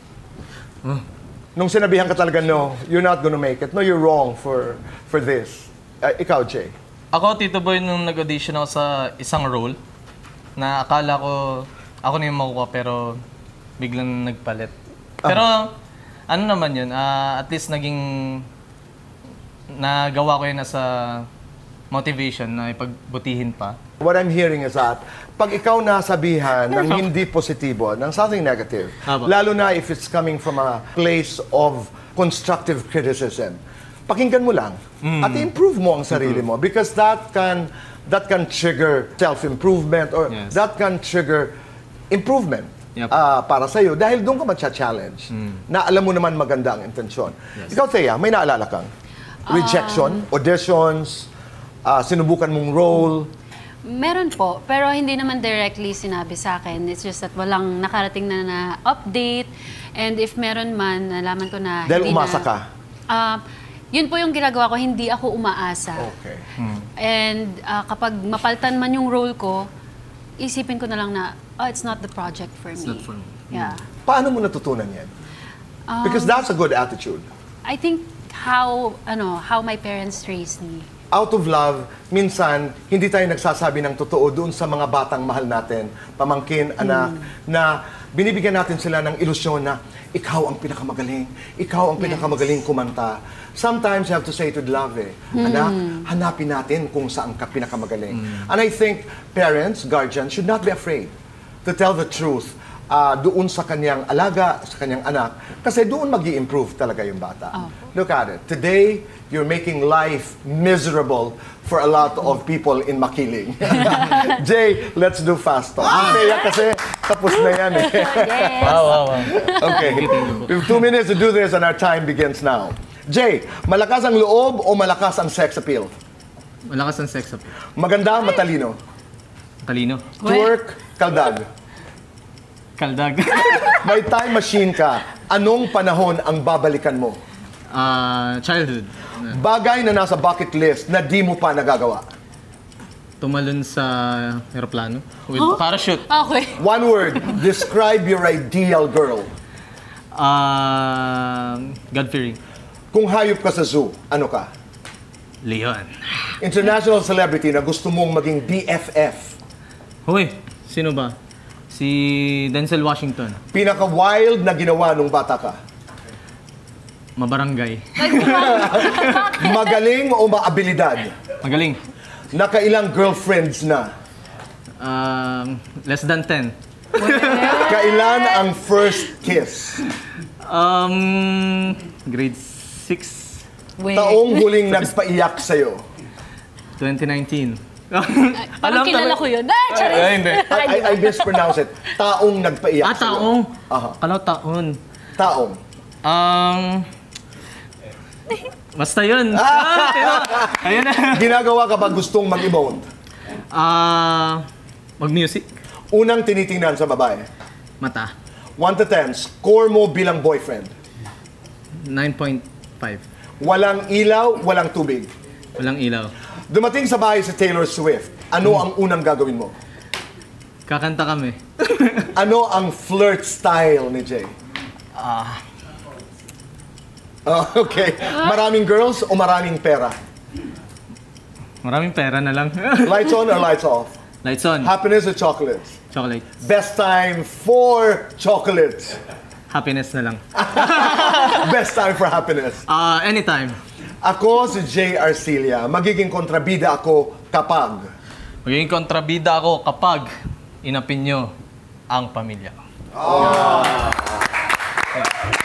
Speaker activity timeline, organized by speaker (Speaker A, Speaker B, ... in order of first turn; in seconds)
Speaker A: 1.6-6.7, 24.0-41.5, 42.1-48.9, 49.5-51.3, 51.8-53.3, 61.9-62.6, 66.0-66.4, 74.0-75.1, 76.0-77.3, 81.1-101.1, 101.6-125.9, 127.8-128.8, 130.2-131.5, 133.8-137.2, 139.2-142.1, 146.6-149.3, 152.9-154.5, 156.4-159.4, 163.5-165.6, 168.4-171.1, 172.3-173.9, 177.5-179.8, 183.9-185.8, 190.5-194.0, 195.2-195.6, 199.3-202.9, 205.9-207.3, 208.6-210.7, 213.4-215.1, 216.5-219.5, 222.1-224.3, 227.2-230.0, 232.8-233.9, 234.6-235.8, 236.4-239.0, 240.4-242.6, 244.0-247.9, 252.9-254.1
Speaker B: 7.1-9.8, 10.6-13.2, 13.8-14.7, 15.2-15.7, 16.3-18.5, 19.7-21.3, 21.9-23.8, 26.7-27.1, 29.1-29.3, 35.0-35.5, 36.1-36.4, 40.3-40.5, 66.6-66.9, 72.8-73.8, 118.6-120.7, 126.7-127.5, 129.6-130.1, 132.8-134.0, 137.7-139.4, 143.2-146.1, 150.1-152.4, 155.4-156.3, 160.0-161.2, 161.7-163.4, 167.2-169.3, 171.4-171.8, 174.8-177.8, 180.4-183.4, 186.8-190.5, 192.8-194.8, 196.0-196.9, 198.7-201.3, 203.5-204.4, 205.0-205.5, 207.8-208.1, 211.8-213.0, 215.6-216.1, 220.7-222.1, 224.9-225.4, 231.6-233.4, 234.2-234.7, 235.9-236.3, 239.5-241.6, 242.7-243.6, 248.4-250.1, 250.6-251.3, 251.9-253.9
Speaker C: 49.5-50.2, 53.8-62.5, 63.1-63.4, 63.9-66.1, 67.0-69.7, 70.4-73.8, 75.9-76.4, 77.6-80.9, 95.3-96.0, 115.9-116.6, 117.5-120.1, 130.2-130.6, 145.3-146.6, 168.0-169.7, 176.9-178.5, 183.8-184.6, 188.4-191.6